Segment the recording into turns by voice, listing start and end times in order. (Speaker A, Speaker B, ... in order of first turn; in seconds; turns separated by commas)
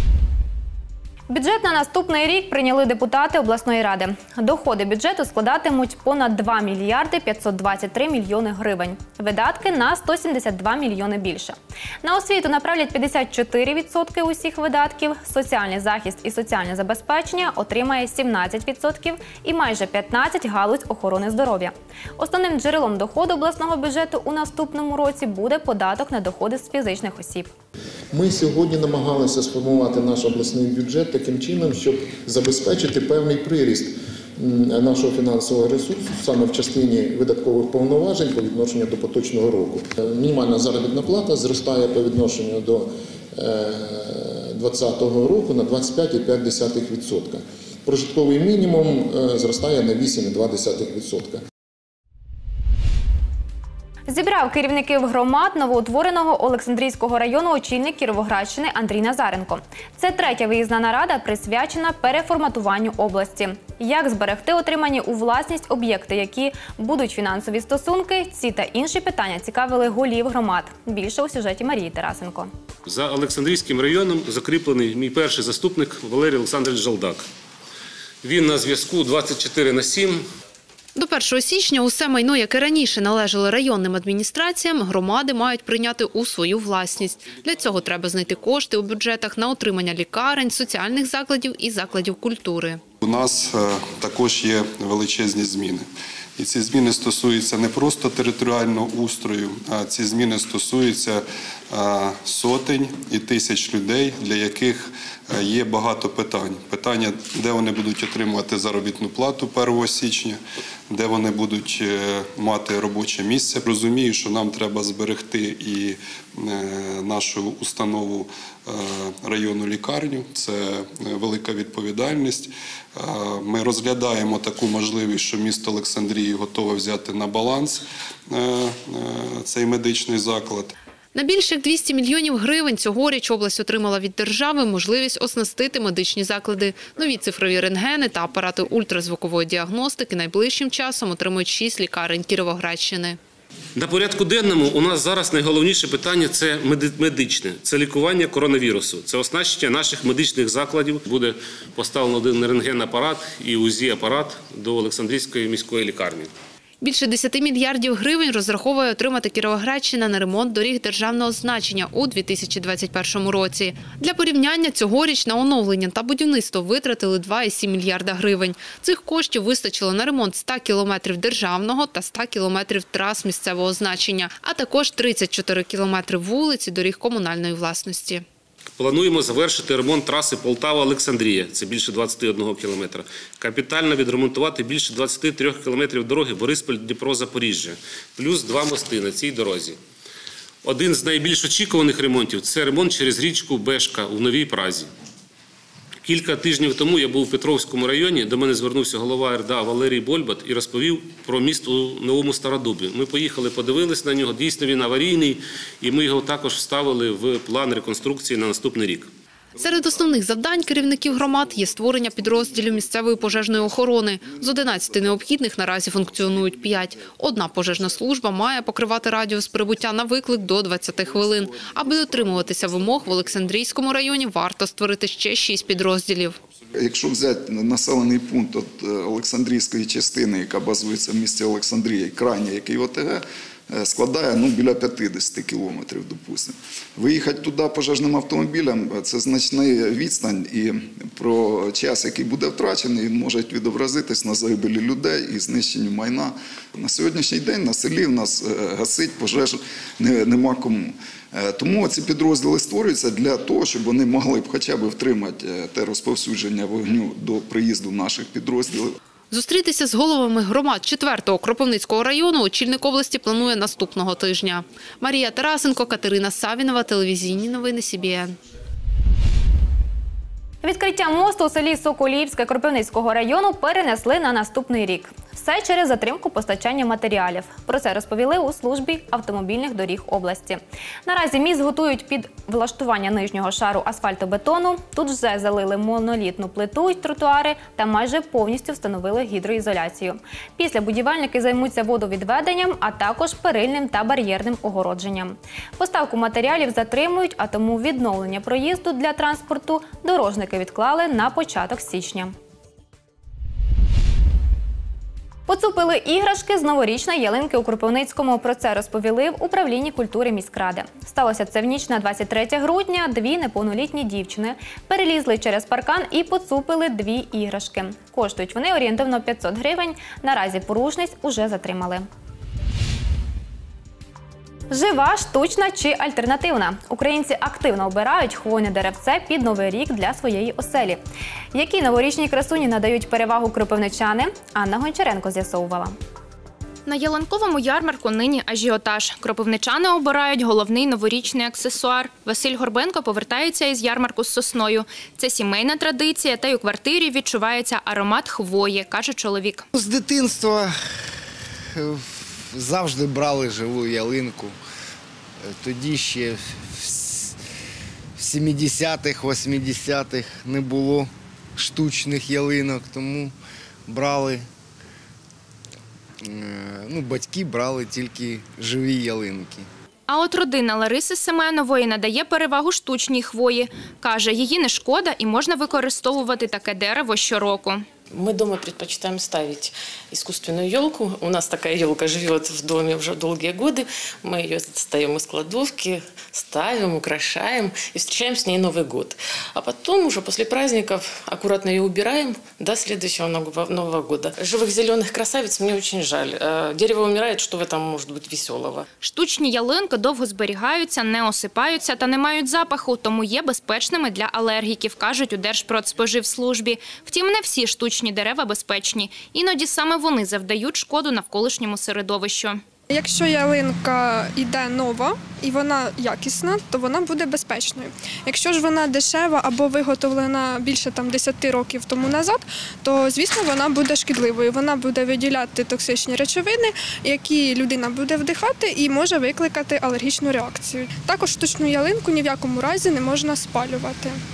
Speaker A: 1.3-27.5, Speaker B: 28.1-51.4, Speaker A: 54.1-72.5, Speaker C: 72.8-77.2, Speaker C: 78.2-80.2, Speaker D: 80.9-92.8, Speaker E: 93.0-95.8, Speaker E: 96.4-110.4, Speaker E: 110.9-130.7, Speaker D: 131.1-143.2, Speaker C: 143.8-156.3, Speaker D: 156.8-178.2, Speaker C: 178.8-189.8, Speaker C: 190.6-194.9, Speaker C: 196.0-209.1, Speaker D: 209.5-226.4, Speaker F: 226.7-259.0, Speaker D: 259.3-268.3, Speaker A: 270.6-302.3, Speaker A: 305.5-322.0, Speaker A: 324.7-331.0, Speaker A: 331.5-335.9, Speaker G: 336.9-349.6, Speaker H: 349.7-351.1, Speaker H: 351.7-354.6, Speaker H: 355.4-357.3, Speaker H: 358.2-363.3, Speaker H: 363.9-364.5, Speaker H: 366.2-369.7, Speaker G: 370.1-377.8, Speaker I: 378.1-398.9, Speaker G: 399.0-412.6, Speaker J: 412.9-434.2